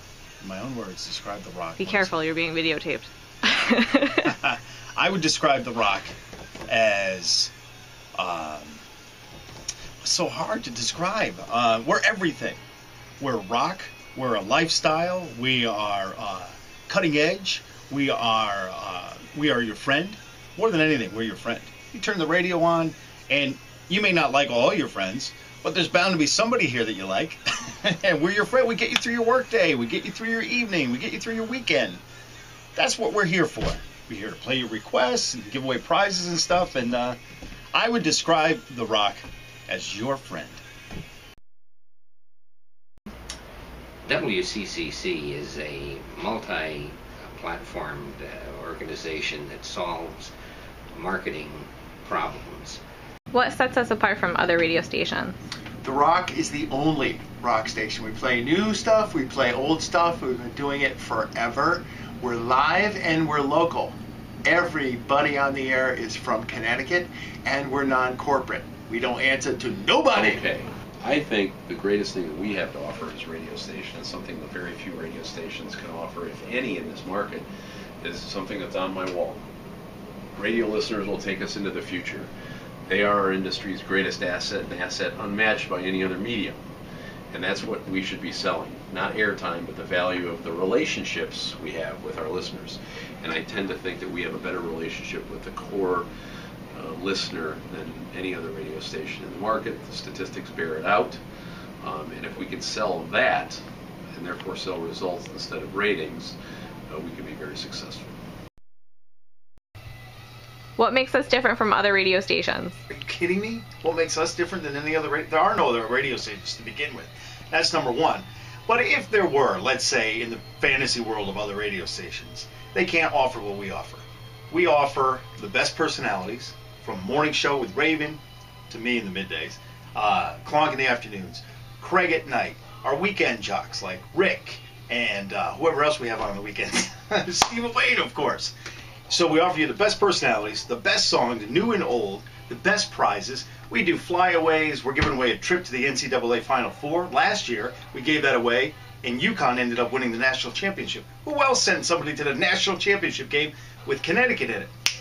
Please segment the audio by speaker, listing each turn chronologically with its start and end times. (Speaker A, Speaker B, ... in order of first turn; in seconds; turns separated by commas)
Speaker A: 0.4-2.1, Speaker B: 1.8-4.3, Speaker A: 4.2-6.1, Speaker A: 6.7-7.5, Speaker A: 8.2-8.8, Speaker A: 10.0-12.6, Speaker A: 13.2-32.0, Speaker A: 32.8-37.2, Speaker A: 37.7-40.6, Speaker C: 44.0-50.3, Speaker C: 50.9-52.8, Speaker B: 53.3-55.3, Speaker D: 55.8-70.4, Speaker E: 70.1-77.4, Speaker E: 78.0-79.4, Speaker E: 80.3-82.3, Speaker E: 82.9-86.6, Speaker E: 87.3-96.1, Speaker E: 96.7-101.2, Speaker E: 101.8-103.6, Speaker E: 104.1-106.3, Speaker E: 106.9-108.2, Speaker B: 110.8-112.8, Speaker A: 112.9-138.5, Speaker A: 139.1-154.7